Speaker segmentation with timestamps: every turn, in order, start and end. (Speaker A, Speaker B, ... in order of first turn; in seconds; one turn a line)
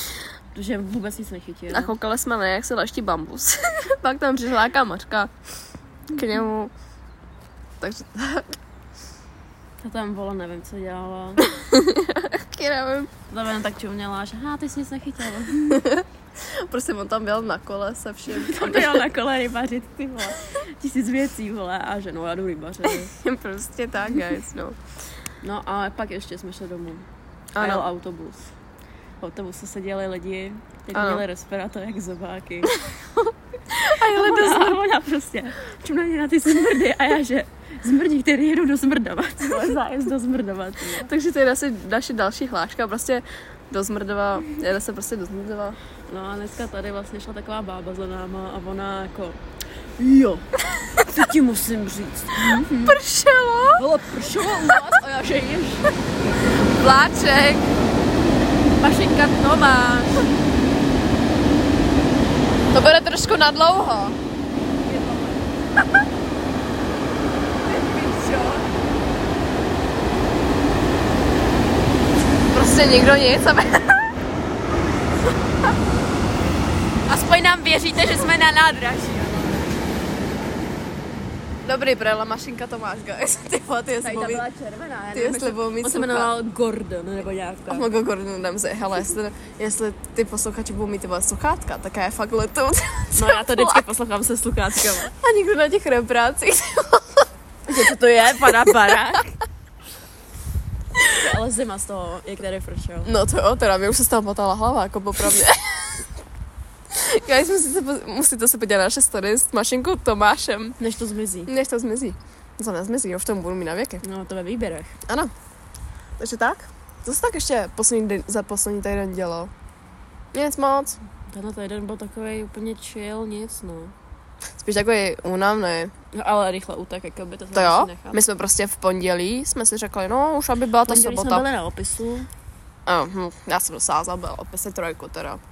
Speaker A: 0.5-1.9
Speaker B: 1.7-5.3
Speaker B: 6.1-6.7
Speaker B: 7.8-8.5
Speaker A: 9.8-11.5
Speaker B: 11.4-13.1
Speaker A: 13.3-15.9
Speaker B: 15.7-19.0
Speaker A: 18.3-23.1
Speaker B: 22.8-24.8
Speaker A: 25.4-27.1
Speaker B: 27.5-27.9
Speaker A: 27.6-28.5
Speaker A: 29.2-32.8
Speaker B: 30.9-31.2
Speaker B: 33.7-34.8
Speaker A: 33.8-41.1
Speaker B: 41.0-45.8
Speaker A: 46.1-49.4
Speaker A: 50.0-53.0
Speaker B: 52.4-53.8
Speaker A: 53.8-56.4
Speaker B: 54.4-54.8
Speaker B: 56.4-57.8
Speaker A: 58.8-60.3
Speaker B: 62.7-64.2
Speaker A: 64.8-65.6
Speaker A: 67.7-68.6
Speaker B: 67.7-68.3
Speaker B: 72.5-74.1
Speaker A: 77.1-79.8
Speaker B: 81.6-84.5
Speaker A: 84.0-87.9
Speaker B: 85.1-86.3
Speaker B: 87.7-93.8
Speaker A: 93.1-95.1
Speaker B: 95.0-97.3
Speaker A: 97.7-99.4
Speaker B: 98.5-99.0
Speaker B: 101.0-101.2
Speaker A: 101.1-103.1
Speaker B: 103.0-106.0
Speaker B: 106.9-110.8
Speaker A: 110.8-111.5
Speaker B: 111.5-114.0
Speaker A: 114.0-115.0
Speaker B: 115.1-115.3
Speaker B: 116.2-119.5
Speaker B: 120.3-121.0
Speaker A: 121.3-123.9
Speaker B: 124.6-125.9
Speaker A: 126.1-128.2
Speaker B: 127.5-131.4
Speaker A: 130.8-132.3
Speaker B: 132.8-135.4